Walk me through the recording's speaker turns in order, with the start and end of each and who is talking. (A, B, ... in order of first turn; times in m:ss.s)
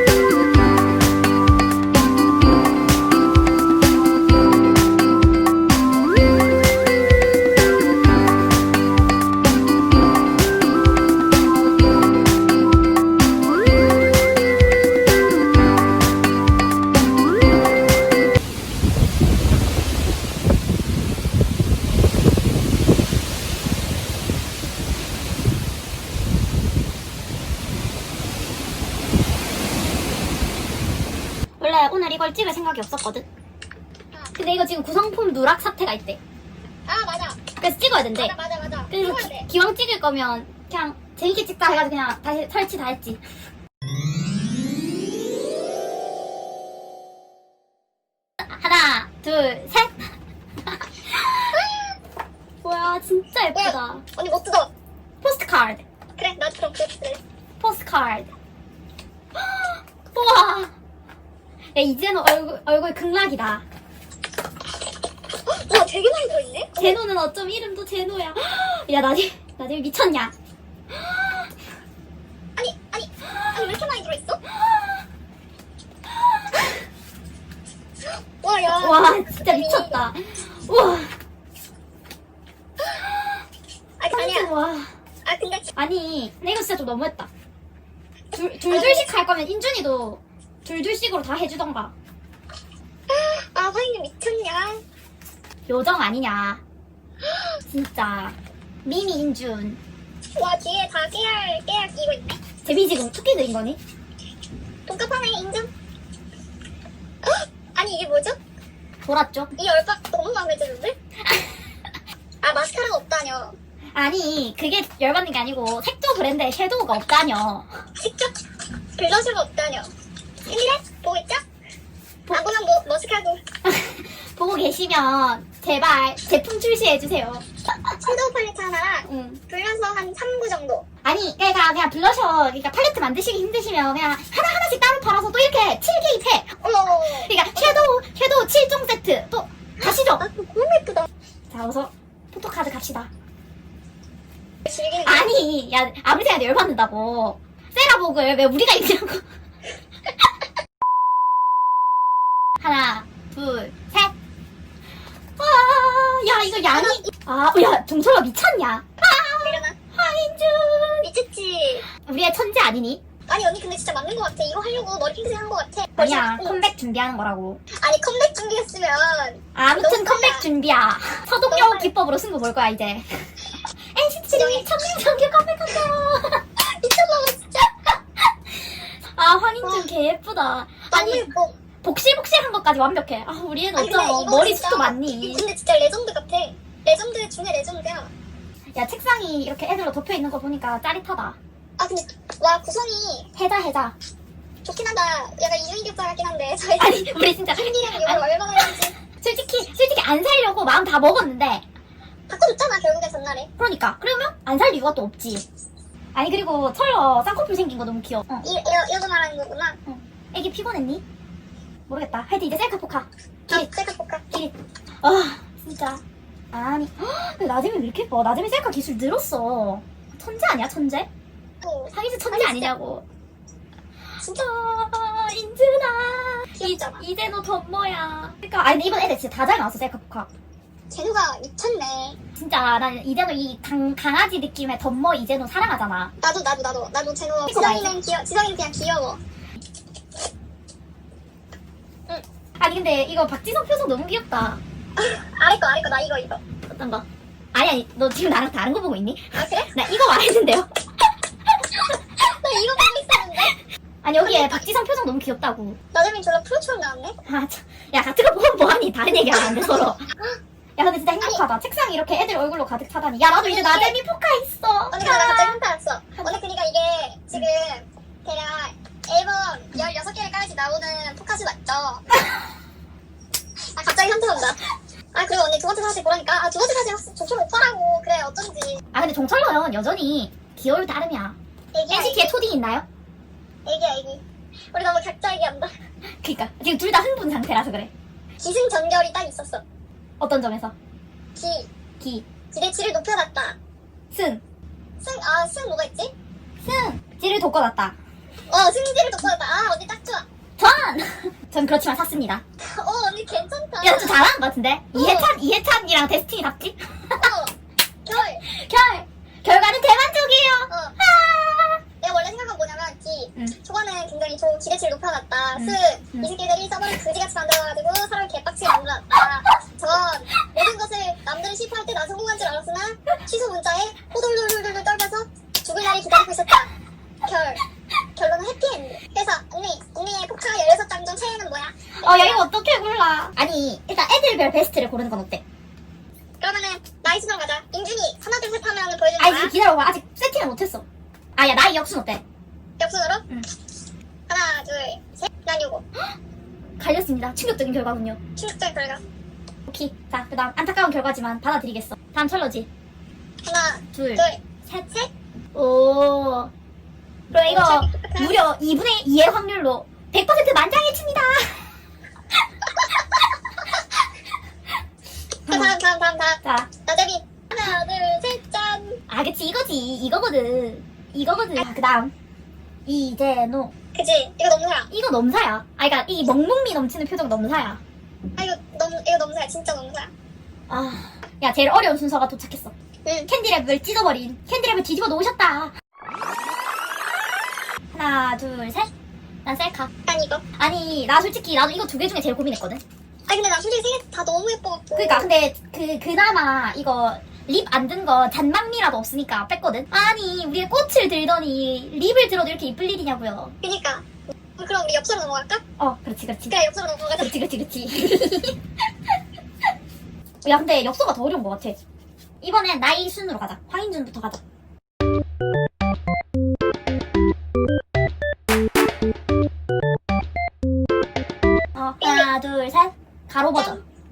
0:31.6-0:33.3 A
0:34.4-0:36.2 A
0:36.9-0:37.4 B
0:37.6-0:38.4 A
0:38.2-0:39.5 B
0:38.9-0:43.2 A
0:48.4-0:50.1 A
0:50.6-0:51.6 A
0:51.5-0:52.0 B
0:52.6-0:54.0 A
0:53.5-0:54.7 B
0:55.2-0:55.8 A
0:56.2-0:57.2 B
0:57.6-0:58.3 A
0:59.4-1:00.7 A
1:01.7-1:03.6 A
1:05.5-1:07.0 B
1:06.8-1:10.3 A
1:10.9-1:11.5 A
1:12.6-1:14.4 B
1:13.3-1:13.7 A
1:14.5-1:15.0 A
1:16.2-1:16.8 A
1:18.4-1:20.1 B
1:18.7-1:21.2 A
1:24.0-1:24.5 B
1:24.1-1:24.9 A
1:25.2-1:25.7 B
1:25.8-1:27.3 A
1:28.3-1:32.0 A
1:28.7-1:29.1 B
1:33.1-1:34.8 B
1:35.7-1:36.6 A
1:37.6-1:39.8 A
1:40.4-1:42.4 B
1:42.6-1:43.8 A
1:44.9-1:45.7 B
1:47.2-1:48.4 B
1:49.0-1:49.5 A
1:49.6-1:51.0 B
1:51.2-1:51.7 A
1:52.4-1:53.6 B
1:54.0-1:57.8 A
1:58.0-1:58.4 B
1:59.0-1:59.9 B
2:00.5-2:01.4 B
2:02.3-2:03.4 B
2:03.6-2:07.4 A
2:08.0-2:10.8 B
2:09.0-2:09.4 A
2:11.0-2:20.2 A
2:16.6-2:17.9 B
2:19.8-2:21.1 B
2:21.5-2:23.1 A
2:24.6-2:25.4 B
2:25.0-2:29.2 A
2:32.6-2:34.1 A
2:35.4-2:41.1 A
2:36.6-2:37.1 B
2:39.4-2:39.8 B
2:41.0-2:41.9 B
2:41.9-2:43.0 A
2:43.3-2:46.7 B
2:46.0-2:47.6 A
2:47.7-2:50.5 B
2:49.6-2:53.3 A
2:51.5-2:51.9 B
2:53.9-2:56.4 A
2:54.3-2:54.7 B
2:56.6-2:57.8 B
2:58.5-3:01.3 A
2:59.6-2:59.9 B
3:00.9-3:01.6 B
3:01.8-3:05.5 A
3:03.8-3:08.1 B
3:08.7-3:11.4 A
3:11.8-3:13.3 B
3:13.3-3:14.0 A
3:14.6-3:19.0 B
3:16.8-3:21.6 A
3:22.3-3:23.5 B
3:23.6-3:25.5 A
3:26.1-3:28.5 A
3:28.4-3:29.8 B
3:29.9-3:31.0 A
3:31.9-3:33.7 A
3:33.5-3:34.2 B
3:34.3-3:41.1 A
3:41.6-3:42.7 B
3:41.9-3:43.1 A
3:44.2-3:50.3 A
3:46.6-3:47.0 B
3:50.9-3:52.2 B
3:52.4-3:56.1 A
3:56.2-3:59.2 B
3:57.4-3:58.0 A
4:02.6-4:04.6 A
4:05.0-4:06.4 B
4:06.7-4:10.7 A
4:09.4-4:09.8 B
4:11.7-4:12.0 A
4:12.2-4:13.6 B
4:14.0-4:15.8 A
4:14.2-4:14.7 B
4:15.9-4:17.2 B
4:17.3-4:20.1 A
4:19.3-4:20.4 B
4:20.8-4:25.6 A
4:23.2-4:24.0 B
4:24.9-4:32.0 B
4:33.7-4:34.6 B
4:35.1-4:38.8 B
4:38.9-4:41.4 A
4:41.7-4:42.4 B
4:41.9-4:42.9 A
4:43.7-4:45.7 B
4:46.2-4:47.9 A
4:48.4-4:49.6 B
4:50.2-4:50.8 A
4:51.4-4:51.7 B
4:52.0-4:52.3 A
4:52.5-4:53.6 B
4:54.1-4:54.4 A
4:55.0-4:56.1 B
4:56.6-4:58.0 A
4:58.5-5:00.3 B
5:00.6-5:02.4 A
5:02.6-5:04.2 B
5:03.8-5:07.3 A
5:04.9-5:05.3 B
5:07.2-5:07.6 B
5:08.1-5:08.4 B
5:08.4-5:11.8 A
5:10.7-5:11.0 B
5:12.0-5:26.7 B
5:15.5-5:16.3 A
5:27.2-5:27.6 B
5:28.2-5:32.5 B
5:32.0-5:35.4 A
5:36.4-5:39.6 B
5:39.2-5:40.8 A
5:41.4-5:42.2 A
5:42.8-5:43.2 B
5:44.3-5:45.8 B
5:46.8-5:48.2 A
5:48.4-5:49.0 B
5:49.7-5:52.7 A
5:53.4-5:55.1 B
5:53.9-5:54.3 A
5:55.5-5:56.5 A
5:57.3-6:01.8 A
5:57.5-5:58.4 B
6:03.0-6:03.2 A
6:03.8-6:04.0 A
6:05.5-6:05.8 A
6:05.5-6:09.0 B
6:06.4-6:06.7 A
6:09.1-6:12.1 A
6:12.9-6:13.7 A
6:14.0-6:14.9 B
6:14.9-6:17.8 A
6:18.4-6:20.1 B
6:20.7-6:22.7 A
6:23.0-6:23.3 B
6:23.3-6:25.7 A
6:27.9-6:28.9 A
6:29.4-6:29.9 A
6:30.1-6:30.4 B
6:30.6-6:32.8 A
6:33.3-6:35.3 B
6:35.0-6:43.6 A
6:43.6-6:45.6 B
6:45.8-6:46.6 A
6:46.5-6:47.4 B
6:47.2-6:48.6 A
6:50.4-6:51.8 A
6:52.4-6:54.4 A
7:01.8-7:03.8 A
7:02.0-7:02.3 B
7:03.6-7:03.8 B